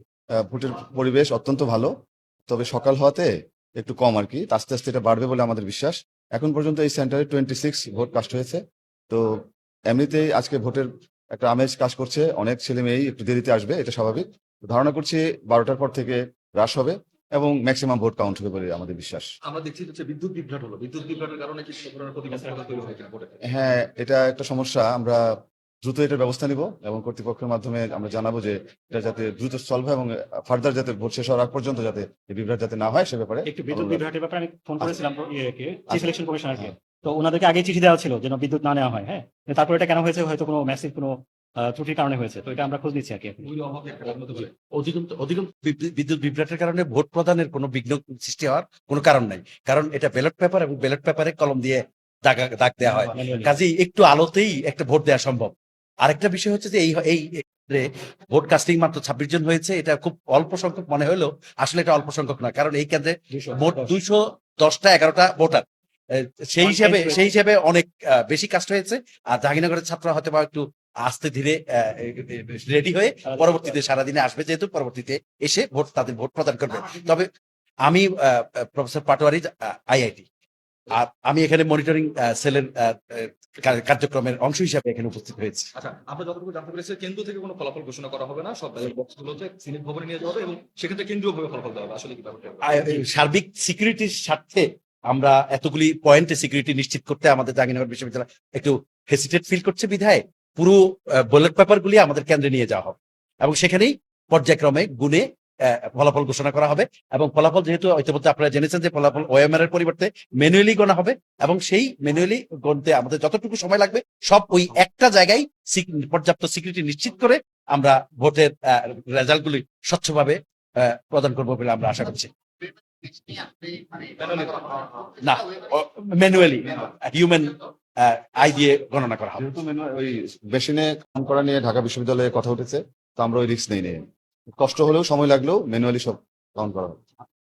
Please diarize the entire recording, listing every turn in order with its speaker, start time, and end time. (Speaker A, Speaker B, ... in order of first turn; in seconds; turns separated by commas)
Speaker A: 0.4-1.9, Speaker A: 2.5-3.3, Speaker A: 3.8-9.4, Speaker A: 9.9-19.3, Speaker B: 19.5-23.4, Speaker C: 22.3-22.8, Speaker A: 23.5-25.2, Speaker A: 25.8-34.0, Speaker C: 33.5-43.5, Speaker A: 35.9-36.7, Speaker B: 43.4-44.5, Speaker D: 44.7-55.5, Speaker C: 52.8-53.6, Speaker D: 56.0-77.3, Speaker C: 63.3-63.9, Speaker C: 66.6-67.2, Speaker C: 73.2-73.8, Speaker D: 77.8-80.2, Speaker D: 80.9-85.7, Speaker B: 85.7-93.0, Speaker D: 92.6-122.3, Speaker B: 124.2-125.1, Speaker D: 125.2-129.4, Speaker A: 129.4-134.1, Speaker A: 134.6-137.0